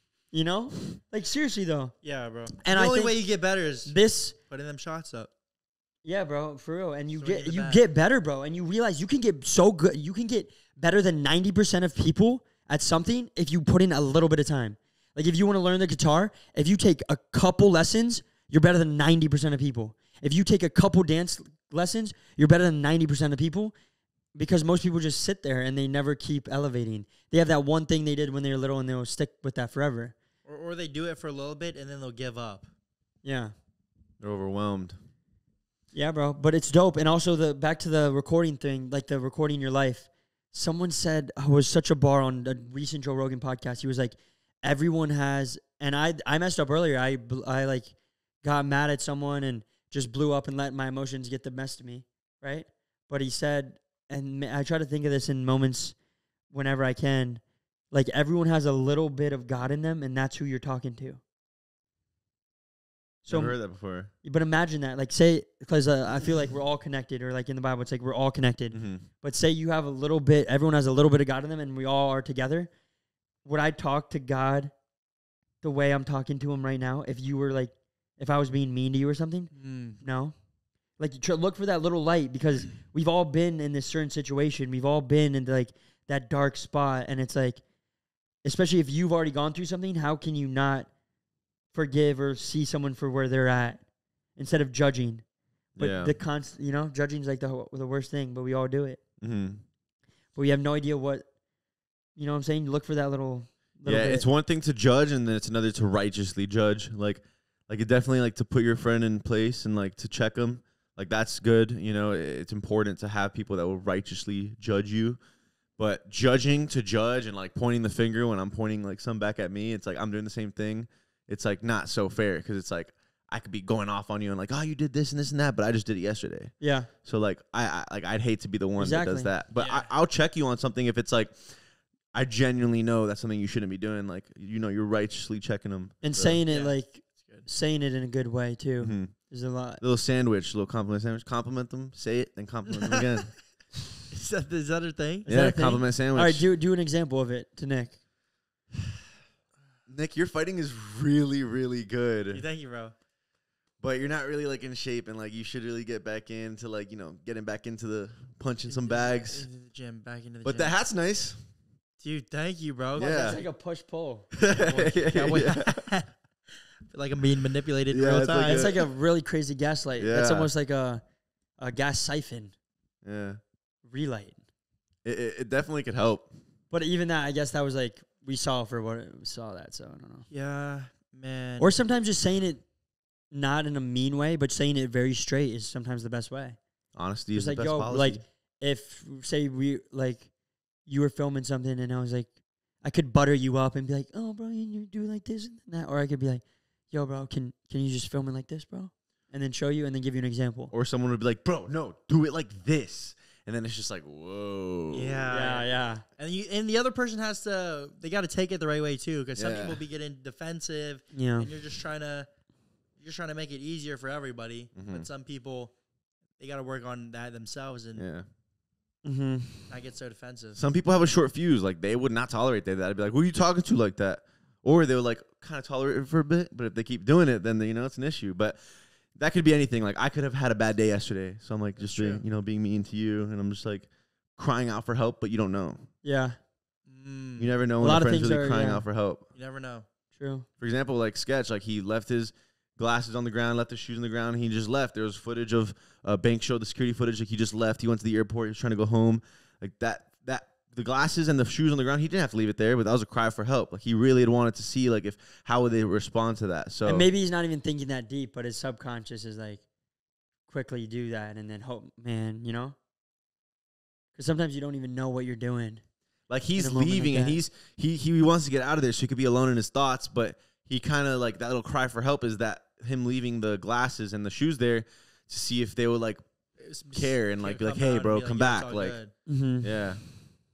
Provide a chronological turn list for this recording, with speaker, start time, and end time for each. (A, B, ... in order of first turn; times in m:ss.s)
0:00.3-0:01.9 A
0:02.0-0:03.9 B
0:02.6-0:03.2 A
0:03.8-0:04.4 A
0:04.5-0:05.3 B
0:06.0-0:23.7 A
0:07.2-0:07.8 B
0:24.3-0:30.1 A
0:30.4-0:32.7 B
0:33.2-0:33.5 A
0:34.2-0:35.0 C
0:35.9-0:55.9 A
0:56.5-1:01.2 A
1:03.2-1:03.6 A
1:03.3-1:04.1 C
1:04.2-1:12.7 A
1:08.7-1:09.0 C
1:13.4-1:14.7 A
1:15.6-1:20.4 A
1:19.5-1:20.0 B
1:21.0-1:27.6 A
1:28.4-1:30.9 A
1:31.7-1:33.8 A
1:34.4-1:35.2 A
1:35.8-1:36.1 C
1:35.8-1:39.0 A
1:39.2-1:39.6 C
1:40.3-1:41.3 A
1:42.2-1:44.3 A
1:43.8-1:55.2 C
1:55.8-2:06.5 C
2:06.6-2:06.9 A
2:07.0-2:11.4 C
2:08.8-2:09.3 A
2:09.6-2:09.9 B
2:12.1-2:16.4 C
2:16.0-2:19.8 A
2:16.5-2:17.5 B
2:18.8-2:19.1 C
2:19.8-2:23.3 C
2:22.7-2:23.3 B
2:24.1-2:25.3 B
2:25.2-2:28.0 A
2:25.3-2:26.4 C
2:29.9-2:32.4 C
2:32.3-2:32.9 B
2:33.8-2:39.4 C
2:38.7-2:40.7 B
2:40.4-2:41.4 C
2:42.0-2:43.1 B
2:43.0-2:43.4 C
2:43.0-2:44.3 A
2:44.3-2:45.9 C
2:44.5-2:46.2 B
2:46.9-2:48.8 B
2:47.9-2:48.8 C
2:48.4-2:51.0 A
2:50.0-2:50.5 C
2:51.6-2:52.5 A
2:53.0-2:53.4 C
2:53.8-2:54.4 A
2:55.0-2:56.3 C
2:56.7-3:00.2 A
3:00.3-3:01.8 B
3:01.6-3:02.6 A
3:03.3-3:06.6 A
3:06.9-3:08.2 C
3:07.3-3:10.3 A
3:10.8-3:12.3 A
3:12.8-3:20.7 A
3:20.7-3:25.3 C
3:24.9-3:32.3 B
3:25.3-3:26.0 A
3:29.4-3:29.8 C
3:31.1-3:31.5 A
3:33.0-3:35.7 B
3:34.7-3:35.0 C
3:36.4-3:38.0 B
3:38.0-3:38.2 C
3:39.0-3:39.7 A
3:39.7-3:40.6 B
3:40.6-3:48.6 C
3:49.1-3:55.9 C
3:51.8-3:52.2 B
3:56.0-3:56.4 A
3:56.9-3:57.5 B
3:57.4-3:59.3 C
3:57.8-3:58.8 A
3:59.3-3:59.8 B
4:00.2-4:00.5 A
4:00.6-4:17.1 C
4:16.8-4:19.6 A
4:20.5-4:22.8 A
4:24.2-4:25.8 A
4:26.3-4:36.2 C
4:26.6-4:27.4 A
4:36.6-4:39.1 B
4:36.9-4:39.0 C
4:39.2-4:39.8 A
4:39.6-4:40.0 C